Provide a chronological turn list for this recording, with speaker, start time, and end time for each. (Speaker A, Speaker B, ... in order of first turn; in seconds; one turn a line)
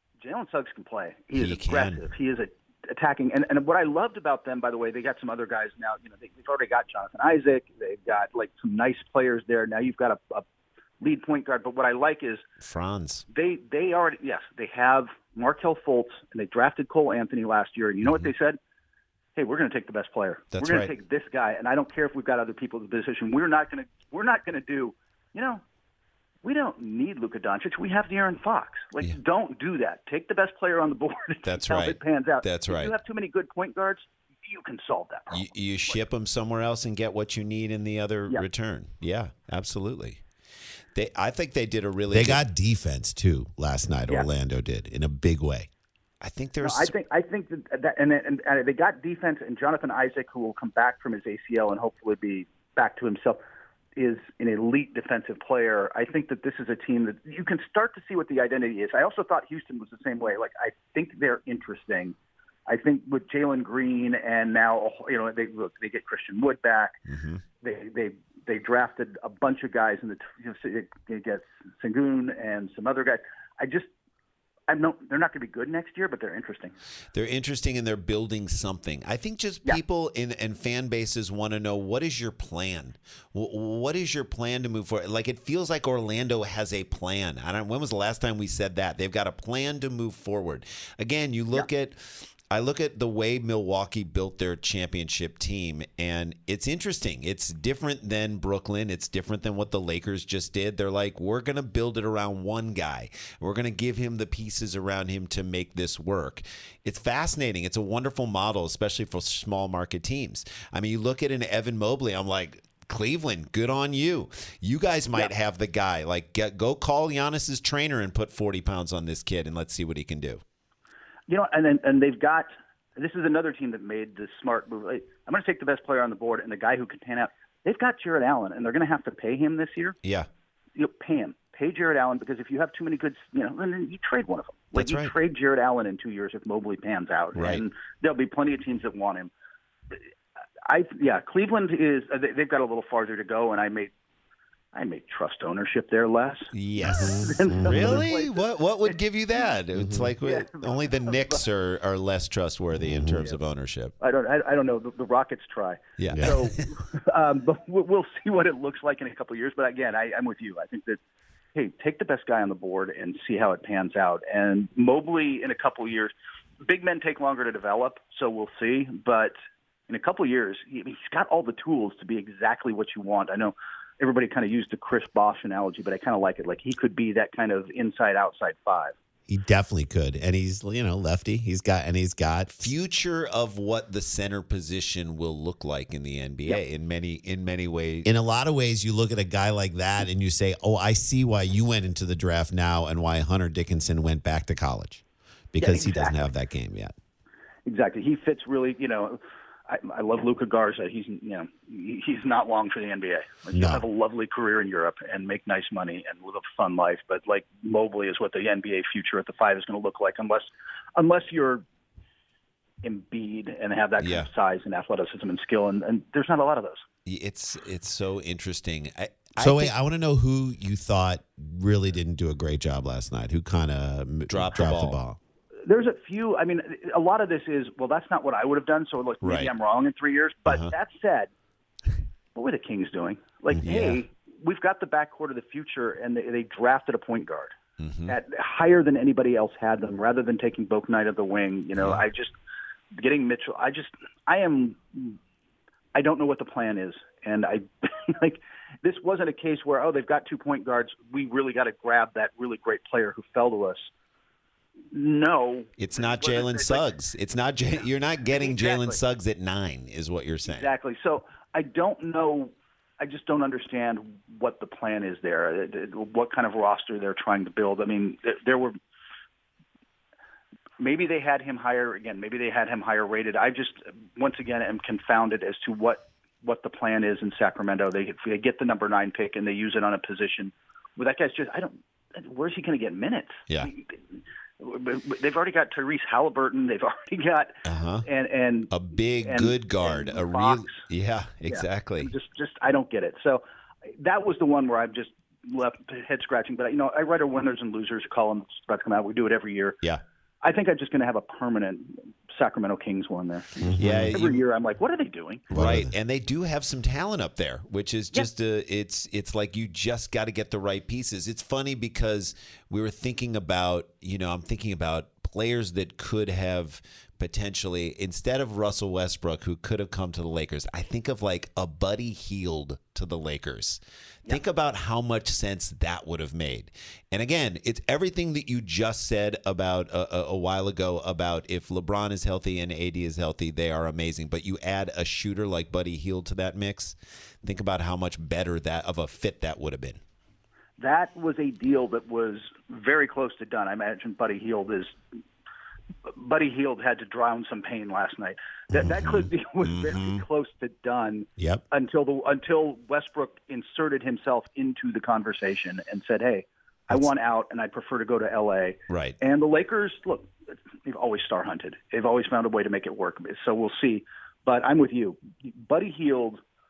Speaker A: 0.2-10.4
Speaker B: 1.3-2.0
Speaker A: 11.0-12.4
Speaker B: 12.6-13.2
Speaker A: 13.3-18.6
Speaker A: 19.4-25.6
Speaker B: 20.5-20.9
Speaker A: 26.4-36.0
Speaker B: 31.4-32.9
Speaker B: 35.3-40.2
Speaker B: 41.0-42.4
Speaker C: 42.1-45.7
Speaker B: 46.2-47.0
Speaker A: 46.6-53.4
Speaker A: 54.0-62.1
Speaker A: 62.7-67.0
Speaker B: 67.1-67.4
Speaker A: 67.6-73.9
Speaker A: 74.7-76.8
Speaker B: 77.1-120.4
Speaker A: 121.3-130.0
Speaker B: 130.0-130.3
Speaker A: 130.8-139.3
Speaker B: 134.7-135.2
Speaker B: 137.3-137.7
Speaker A: 140.7-143.9
Speaker A: 144.7-148.9
Speaker B: 146.5-153.9
Speaker C: 146.9-148.0
Speaker C: 149.8-150.1
Speaker A: 150.2-151.4
Speaker C: 152.8-153.3
Speaker A: 154.0-161.0
Speaker B: 156.0-156.6
Speaker A: 161.5-169.3
Speaker A: 169.9-178.9
Speaker C: 179.3-182.7
Speaker B: 182.6-188.1
Speaker C: 188.1-195.0
Speaker C: 195.5-196.9
Speaker A: 195.6-196.2
Speaker A: 197.7-211.7
Speaker C: 203.5-203.8
Speaker A: 212.8-216.8
Speaker B: 214.0-214.3
Speaker B: 217.1-219.7
Speaker C: 219.4-225.2
Speaker B: 224.3-225.0
Speaker A: 225.7-231.3
Speaker B: 229.2-229.5
Speaker B: 230.5-230.7
Speaker A: 232.3-237.6
Speaker B: 233.5-234.0
Speaker B: 237.8-238.2
Speaker A: 238.1-242.3
Speaker B: 241.8-242.0
Speaker A: 242.9-245.2
Speaker A: 245.9-253.9
Speaker A: 254.9-256.8
Speaker B: 255.8-260.7
Speaker A: 258.3-259.0
Speaker A: 260.4-268.8
Speaker A: 270.8-284.0
Speaker A: 284.6-290.8
Speaker B: 287.6-288.1
Speaker B: 288.7-292.1
Speaker A: 291.5-293.4
Speaker A: 294.0-299.8
Speaker A: 300.4-305.5
Speaker C: 303.6-304.1
Speaker B: 303.8-304.4
Speaker B: 305.5-340.0
Speaker C: 305.5-305.9
Speaker A: 340.8-345.0
Speaker A: 346.1-366.4
Speaker B: 348.8-350.2
Speaker C: 351.4-351.6
Speaker B: 358.9-359.2